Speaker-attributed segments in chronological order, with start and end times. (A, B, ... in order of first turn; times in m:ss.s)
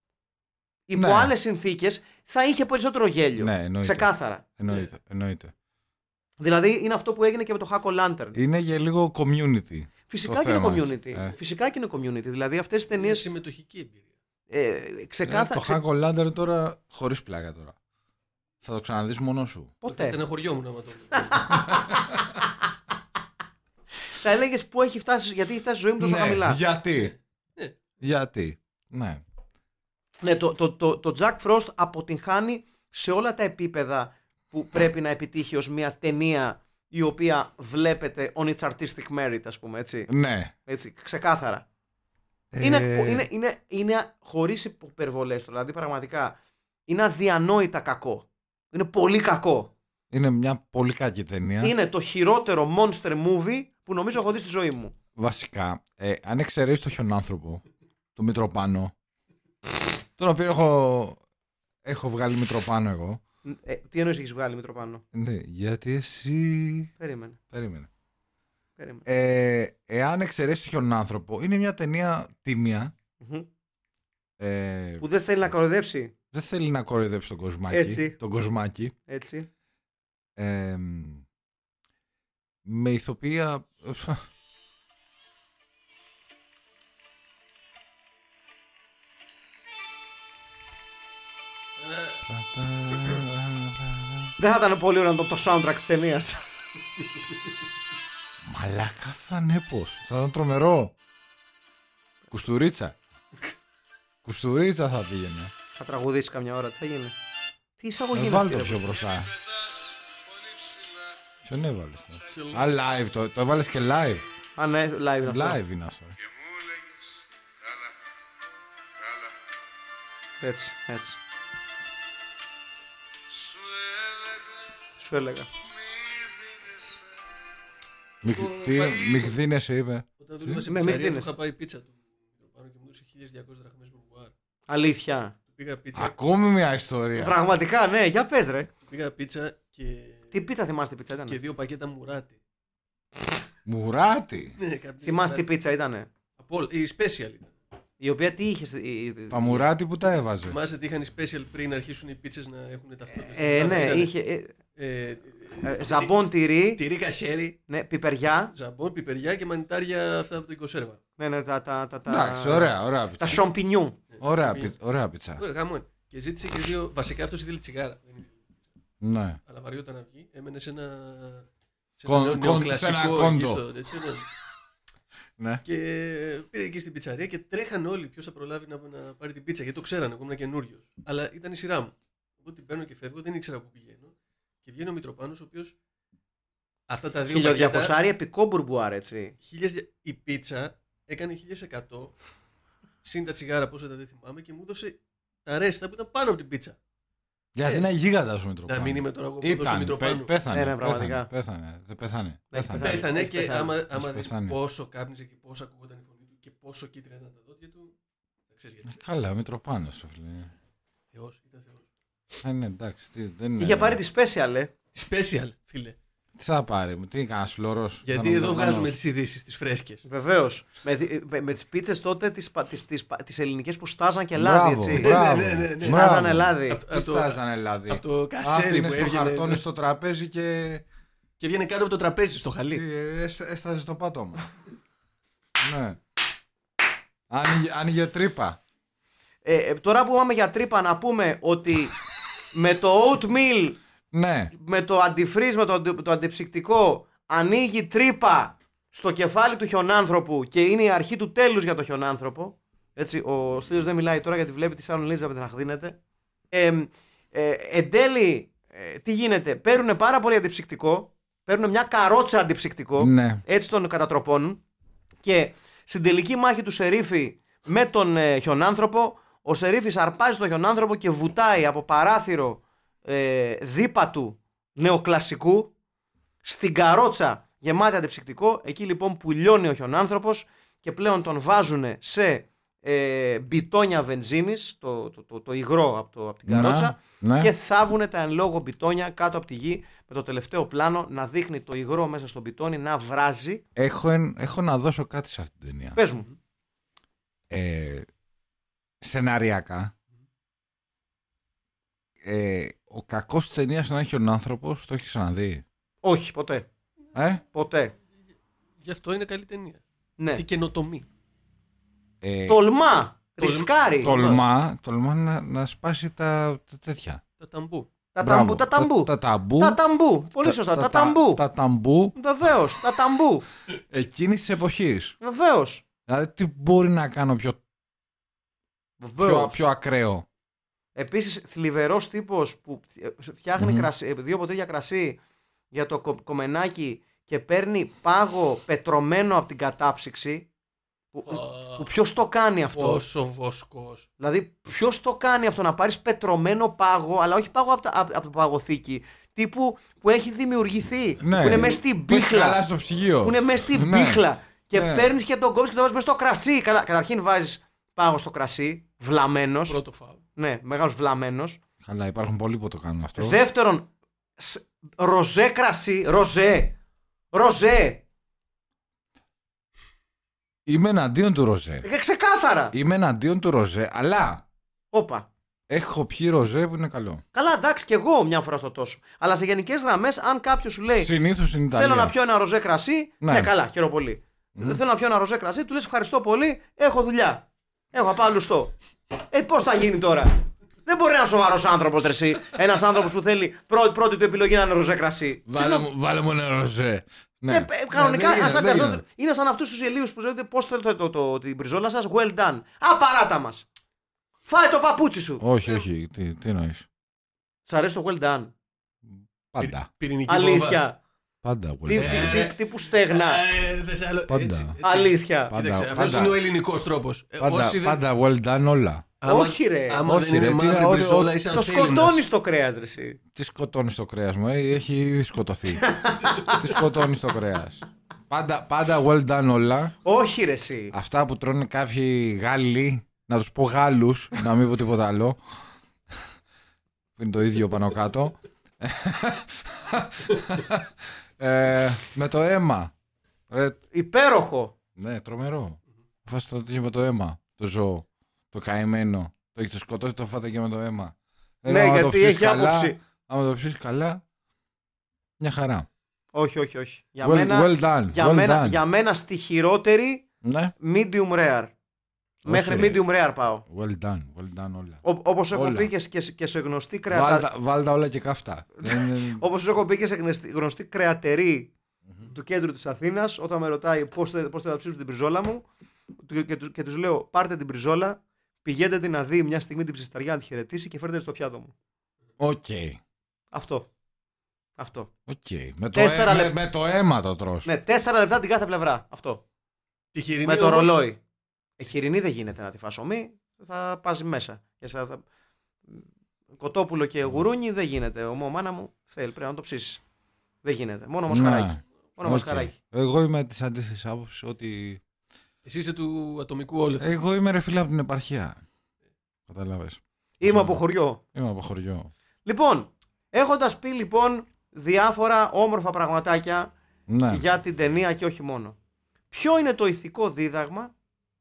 0:00.9-0:04.4 A
0:00.9-0:01.3 B
0:03.4-0:05.5 B
0:06.4-0:08.4 A
0:08.3-0:11.4 B
0:10.1-0:13.3 A
0:12.9-0:14.1 C
0:14.5-0:15.8 A
0:15.3-0:17.8 B
0:18.6-0:19.7 B
0:19.8-0:20.2 A
0:19.9-0:21.6 C
0:21.1-0:22.4 A
0:21.5-0:22.4 B
0:24.1-0:26.6 A
0:26.0-0:27.1 B
0:27.0-0:27.8 C
0:28.0-0:29.2 B
0:30.2-0:40.1 A
0:40.1-0:40.5 B
0:40.7-0:41.6 A
0:42.5-0:43.3 B
0:42.6-0:49.7 A
0:50.1-0:51.7 B
0:51.6-0:54.9 A
0:55.2-0:57.6 B
0:58.2-0:58.9 B
1:00.2-1:01.2 B
1:01.8-1:03.2 B
1:03.4-1:05.0 A
1:05.1-1:06.9 B
1:07.0-1:07.4 A
1:07.5-1:07.9 B
1:08.8-1:09.1 A
1:09.1-1:12.9 B
1:13.2-1:13.5 A
1:14.4-1:15.0 B
1:15.0-1:16.1 A
1:16.3-1:18.9 B
1:17.7-1:18.2 A
1:19.1-1:19.5 A
1:20.4-1:21.2 B
1:22.6-1:24.3 B
1:31.8-1:32.2 C
1:32.3-1:34.3 B
1:34.4-1:36.4 A
1:38.4-1:40.9 B
1:42.3-1:43.0 B
1:44.2-1:45.5 B
1:45.8-1:47.2 A
1:47.8-1:48.9 A
1:48.1-1:49.3 B
1:51.4-1:54.3 B
1:52.3-1:52.6 C
1:54.6-1:55.6 A
1:55.2-1:56.2 B
2:00.4-2:01.2 A
2:05.0-2:05.5 A
2:08.2-2:10.6 B
2:08.3-2:09.3 C
2:10.2-2:14.3 C
2:10.7-2:11.3 A
2:14.7-2:15.4 A
2:15.5-2:16.2 C
2:15.9-2:17.4 B
2:17.2-2:18.7 A
2:18.9-2:20.3 C
2:20.3-2:21.4 A
2:21.3-2:22.4 C
2:23.7-2:24.6 B
2:24.6-2:25.5 C
2:25.0-2:26.1 A
2:26.4-2:27.5 C
2:28.0-2:29.7 A
2:29.3-2:30.6 B
2:30.4-2:34.1 C
2:33.2-2:34.5 A
2:34.8-2:37.6 C
2:35.6-2:36.8 A
2:37.7-2:38.5 A
2:38.5-2:41.0 C
2:41.2-2:44.0 A
2:42.1-2:43.4 B
2:44.1-2:44.7 C
2:44.2-2:45.4 B
2:45.4-2:48.5 C
2:49.0-2:49.4 B
2:49.5-2:51.5 C
2:52.0-2:54.3 C
2:52.1-2:53.6 B
2:55.4-2:55.6 B
2:55.6-3:05.8 C
3:06.9-3:08.0 C
3:07.3-3:09.3 A
3:09.4-3:12.2 C
3:13.0-3:16.8 C
3:17.6-3:23.1 B
3:18.7-3:20.3 C
3:20.5-3:21.3 A
3:22.5-3:23.8 A
3:22.8-3:27.9 C
3:23.9-3:24.6 B
3:28.5-3:28.9 C
3:28.9-3:30.5 B
3:31.1-3:31.9 C
3:32.4-3:34.0 B
3:33.6-3:34.7 A
3:34.9-3:36.0 C
3:36.4-3:39.0 B
3:38.0-3:40.0 C
3:40.0-3:45.2 A
3:44.4-3:50.8 B
3:45.0-3:46.1 C
3:45.8-3:46.8 A
3:46.7-3:49.6 C
3:51.4-3:52.8 C
3:52.7-3:54.5 B
3:55.6-3:56.0 B
3:57.3-3:58.6 B
3:59.4-4:02.0 A
4:02.5-4:03.8 A
4:04.1-4:04.5 B
4:04.5-4:16.0 A
4:16.5-4:24.6 A
4:23.0-4:23.4 B
4:25.2-4:35.7 A
4:36.4-4:53.6 A
4:46.5-4:47.5 B
4:53.8-4:56.0 B
4:56.0-4:56.3 A
4:57.5-4:58.1 B
4:59.0-4:59.9 B
5:02.2-5:05.6 B
5:06.0-5:06.7 A
5:07.1-5:07.4 B
5:07.5-5:07.9 A
5:08.8-5:09.8 C
5:10.4-5:11.1 C
5:12.2-5:12.6 B
5:12.5-5:14.1 A
5:13.4-5:14.4 C
5:14.0-5:17.2 B
5:17.4-5:17.9 C
5:18.1-5:21.4 A
5:18.2-5:19.8 B
5:20.4-5:22.8 B
5:22.2-5:23.5 A
5:23.9-5:25.2 B
5:25.2-5:25.8 A
5:26.1-5:27.6 B
5:29.0-5:29.6 A
5:29.2-5:30.2 B
5:31.0-5:35.2 A
5:33.6-5:33.9 B
5:35.7-5:40.5 A
5:41.1-5:43.0 A
5:41.3-5:41.9 C
5:42.7-5:44.1 C
5:44.2-5:52.6 A
5:51.2-5:55.1 B
5:51.3-5:51.6 C
5:53.2-5:59.8 A
5:59.7-6:00.2 C
6:00.4-6:01.6 A
6:01.8-6:03.4 B
6:03.2-6:06.8 A
6:07.3-6:08.0 A
6:10.7-6:11.9 B
6:11.8-6:12.8 A
6:12.7-6:14.4 B
6:14.9-6:15.3 A
6:15.7-6:17.2 B
6:17.3-6:21.1 A
6:21.0-6:22.1 B
6:21.7-6:28.7 A
6:23.2-6:23.5 B
6:24.6-6:24.8 B
6:29.3-6:35.9 A
6:35.5-6:39.0 B
6:37.5-6:43.6 A
6:44.5-6:45.4 A
6:45.4-6:46.9 B
6:47.7-6:48.5 A
6:49.5-6:49.9 B
6:49.6-6:50.8 C
6:50.3-6:51.0 A
6:51.4-6:52.5 B
6:51.9-6:53.4 A
6:52.0-6:58.0 C
6:54.3-6:54.8 B
6:54.8-6:55.5 A
6:55.5-6:56.4 B
6:57.4-6:59.1 B
6:59.2-7:02.2 C
6:59.3-7:00.0 A
7:00.0-7:01.4 B
7:01.5-7:03.2 A
7:03.3-7:10.0 B
7:05.8-7:06.8 A
7:10.0-7:10.9 A
7:10.9-7:15.6 B
7:17.2-7:22.9 B
7:23.5-7:23.8 B
7:23.9-7:24.7 A
7:25.0-7:34.2 B
7:31.7-7:33.0 A
7:35.4-7:35.9 B
7:36.3-7:40.3 A
7:37.2-7:38.8 B
7:40.4-7:40.7 B
7:40.8-7:41.7 A
7:42.4-7:43.6 A
7:42.4-7:43.0 B
7:43.7-7:45.9 B
7:45.0-7:47.5 A
7:47.1-7:49.4 B
7:48.8-7:51.7 A
7:52.3-7:55.7 A
7:56.2-8:01.7 A
8:02.4-8:03.0 B
8:03.5-8:03.9 A
8:04.8-8:05.1 A
8:05.3-8:07.7 B
8:05.9-8:06.6 A
8:07.6-8:09.4 A
8:10.1-8:11.0 C
8:10.4-8:11.2 A
8:11.8-8:15.2 A
8:16.6-8:20.0 A
8:20.6-8:22.7 A
8:21.3-8:25.0 B
8:25.6-8:27.1 C
8:27.0-8:28.6 B
8:29.5-8:30.8 B
8:30.4-8:31.2 A
8:31.3-8:32.1 B
8:32.4-8:36.7 A
8:37.1-8:37.4 B
8:37.3-8:38.8 A
8:39.3-8:40.9 A